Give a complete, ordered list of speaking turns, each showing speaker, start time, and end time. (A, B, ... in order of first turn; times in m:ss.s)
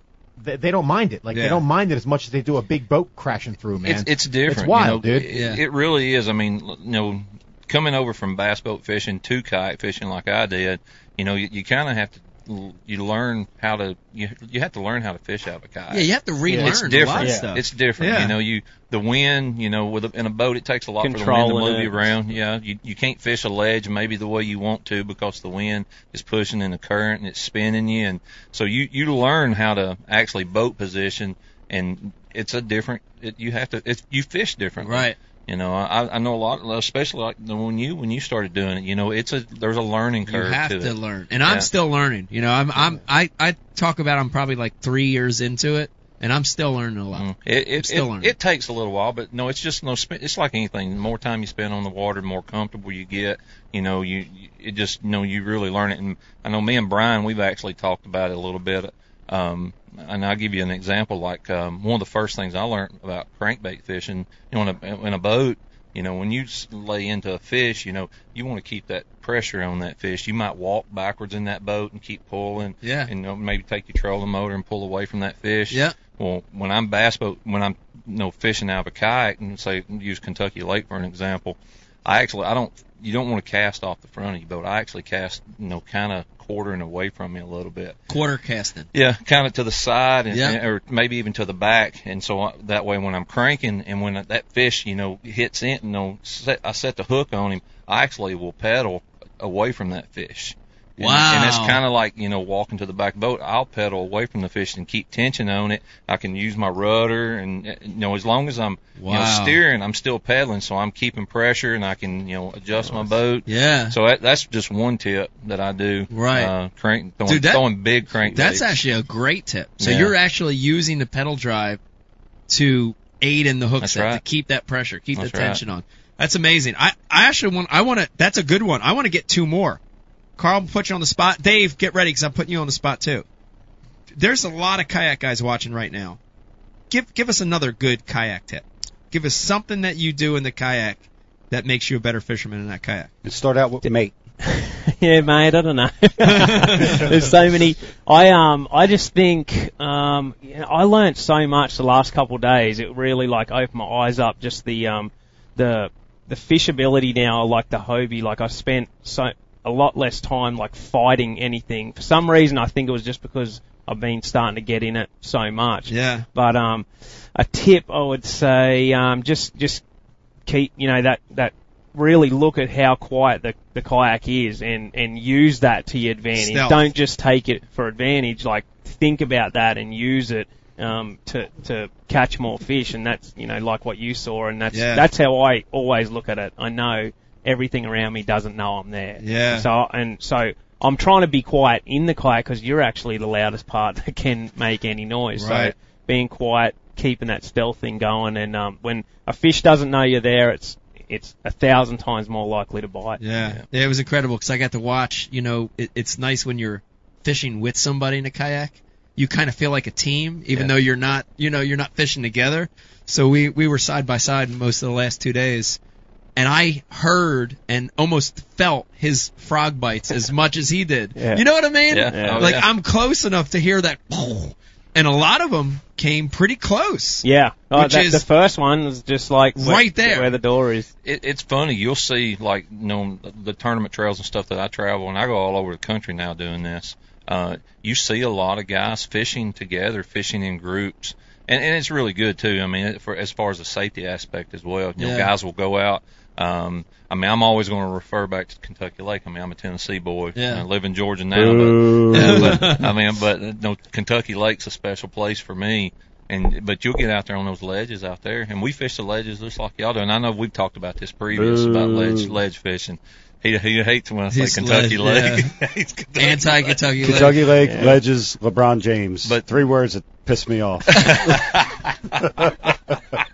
0:00.4-0:05.2 A
0:01.3-0:01.6 B
0:03.8-0:41.7 C
0:05.3-0:05.6 B
0:15.9-0:18.4 B
0:16.5-0:17.5 D
0:21.0-0:22.1 D
0:34.8-0:35.2 B
0:40.2-0:48.3 B
0:47.2-1:28.0 C
1:12.8-1:13.1 B
1:15.7-1:16.0 B
1:28.1-1:28.9 B
1:28.9-1:58.8 C
1:30.3-1:30.6 B
1:41.0-1:41.8 B
1:49.0-1:49.6 B
1:53.5-1:54.0 B
1:56.1-1:56.5 B
1:57.2-1:57.6 B
1:58.2-2:01.8 B
1:59.8-2:00.1 C
2:02.5-2:09.8 B
2:03.8-2:04.2 C
2:05.2-2:05.6 C
2:10.4-2:13.2 B
2:14.2-2:16.2 B
2:16.9-2:23.1 B
2:23.2-2:24.1 E
2:24.4-2:49.8 D
2:26.2-2:27.0 B
2:45.9-2:46.2 B
2:50.5-3:23.2 D
2:56.4-2:56.8 B
3:04.7-3:05.1 B
3:09.2-3:09.7 B
3:15.4-3:15.7 B
3:23.2-3:35.8 B
3:23.4-3:23.6 C
3:36.4-3:48.2 B
3:41.2-3:41.4 D
3:41.9-3:42.7 C
3:42.1-3:42.5 D
3:47.2-3:50.9 D
3:49.6-3:50.3 B
3:51.0-4:27.2 C
4:05.0-4:05.3 B
4:10.3-4:10.6 B
4:11.3-4:12.8 E
4:12.1-4:12.8 B
4:21.3-4:22.4 E
4:24.3-4:25.5 B
4:26.2-4:27.5 B
4:27.0-4:31.5 E
4:27.6-4:28.0 D
4:30.9-4:32.2 C